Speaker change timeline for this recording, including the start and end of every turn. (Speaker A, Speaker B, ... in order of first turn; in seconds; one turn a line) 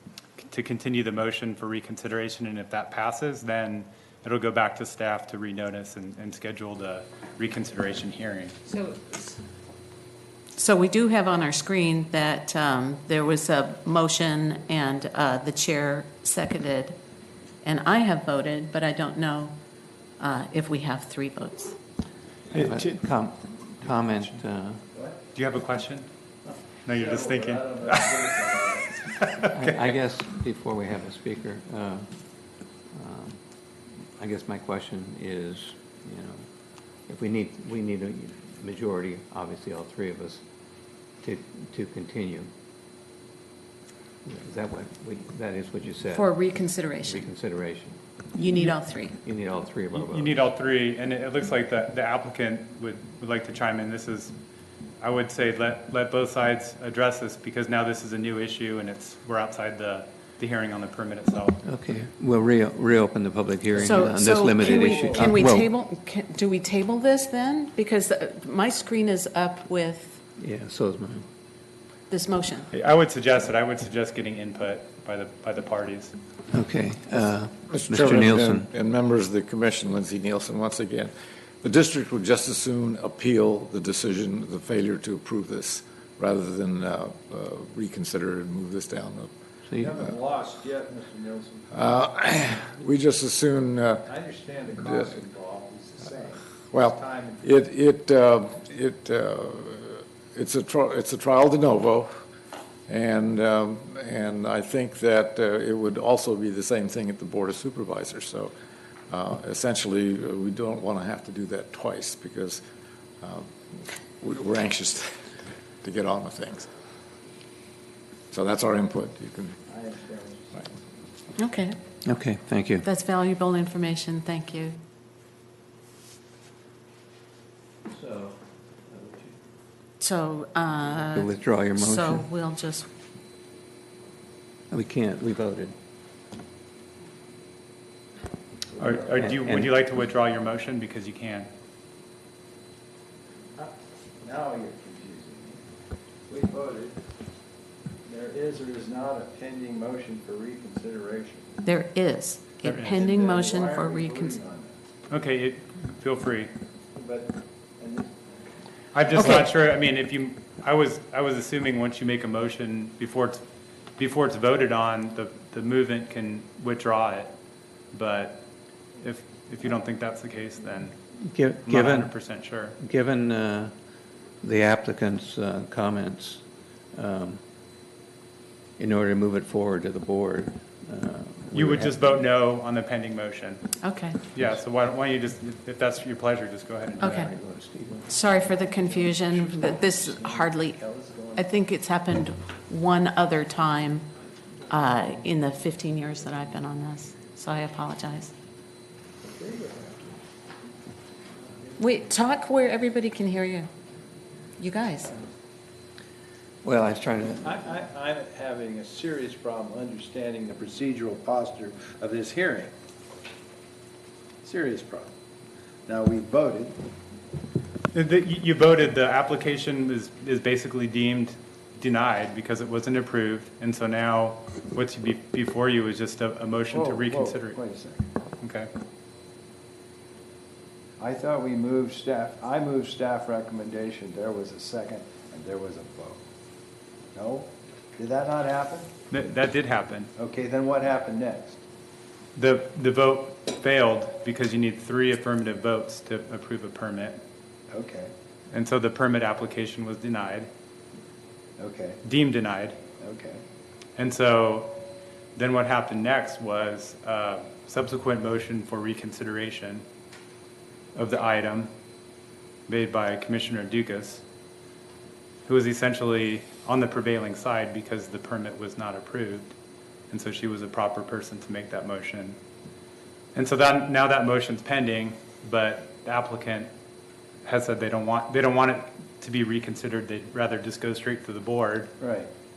Speaker A: 0.4-8.6
Speaker B: 8.7-9.4
Speaker B: 10.6-17.0
Speaker B: 17.6-19.5
Speaker B: 20.2-21.8
Speaker C: 22.5-24.8
Speaker D: 24.9-25.2
Speaker A: 25.3-26.1
Speaker A: 26.8-28.1
Speaker D: 26.9-28.9
Speaker A: 29.1-29.5
Speaker C: 29.5-32.1
Speaker C: 32.9-33.4
Speaker C: 34.2-36.5
Speaker C: 37.1-40.4
Speaker C: 41.2-42.5
Speaker C: 44.2-46.4
Speaker B: 46.1-47.2
Speaker C: 47.0-48.0
Speaker B: 48.3-49.2
Speaker C: 49.2-50.5
Speaker A: 49.9-54.3
Speaker A: 55.0-61.6
Speaker C: 61.6-65.7
Speaker B: 63.7-70.2
Speaker D: 64.6-65.4
Speaker C: 70.4-71.2
Speaker B: 72.1-72.7
Speaker A: 72.7-76.2
Speaker C: 76.5-78.7
Speaker E: 77.7-89.3
Speaker C: 89.7-90.0
Speaker D: 89.8-91.9
Speaker E: 91.7-94.1
Speaker D: 94.0-97.5
Speaker E: 94.8-95.1
Speaker E: 96.7-102.2
Speaker E: 102.9-108.5
Speaker E: 109.1-112.6
Speaker E: 113.2-115.3
Speaker E: 115.8-116.7
Speaker E: 118.3-119.6
Speaker D: 119.7-120.7
Speaker B: 121.3-121.8
Speaker C: 122.0-122.8
Speaker B: 122.8-124.8
Speaker C: 127.9-129.4
Speaker B: 130.0-132.9
Speaker C: 131.0-132.3
Speaker C: 134.7-135.7
Speaker D: 138.7-139.3
Speaker A: 138.8-141.5
Speaker C: 139.2-139.7
Speaker D: 143.6-145.6
Speaker D: 146.3-147.0
Speaker D: 148.0-151.6
Speaker B: 151.6-154.4
Speaker A: 152.6-153.0
Speaker D: 152.8-154.8
Speaker A: 155.1-156.5
Speaker D: 156.9-158.3
Speaker A: 158.9-163.4
Speaker A: 164.0-167.3
Speaker A: 167.9-168.4
Speaker A: 169.0-170.9
Speaker C: 171.2-172.2
Speaker A: 171.6-172.8
Speaker C: 172.8-173.7
Speaker C: 174.4-177.4
Speaker C: 178.8-181.9
Speaker A: 181.5-183.7
Speaker B: 183.8-184.2
Speaker A: 184.3-187.3
Speaker B: 187.0-187.3
Speaker C: 187.0-188.1
Speaker B: 188.1-190.8
Speaker D: 188.4-191.5
Speaker B: 191.3-194.1
Speaker B: 194.7-198.3
Speaker D: 199.2-200.1
Speaker B: 201.8-203.7
Speaker B: 204.6-205.3
Speaker C: 206.6-207.6
Speaker D: 207.4-212.7
Speaker D: 214.4-215.1
Speaker D: 215.9-216.8
Speaker A: 217.9-227.6
Speaker D: 226.7-228.1
Speaker A: 228.4-228.7
Speaker D: 231.0-236.2
Speaker D: 237.1-238.9
Speaker A: 239.1-240.1
Speaker D: 240.2-241.6
Speaker A: 242.3-247.2
Speaker D: 247.7-248.1
Speaker A: 248.5-250.5
Speaker D: 251.6-252.0
Speaker A: 252.0-252.8
Speaker D: 253.0-253.4
Speaker A: 253.9-254.8
Speaker A: 255.3-259.8
Speaker A: 260.9-261.7
Speaker A: 262.7-264.2
Speaker A: 265.4-269.5
Speaker A: 270.1-272.4
Speaker A: 273.3-276.7
Speaker A: 277.4-281.9
Speaker D: 282.0-282.3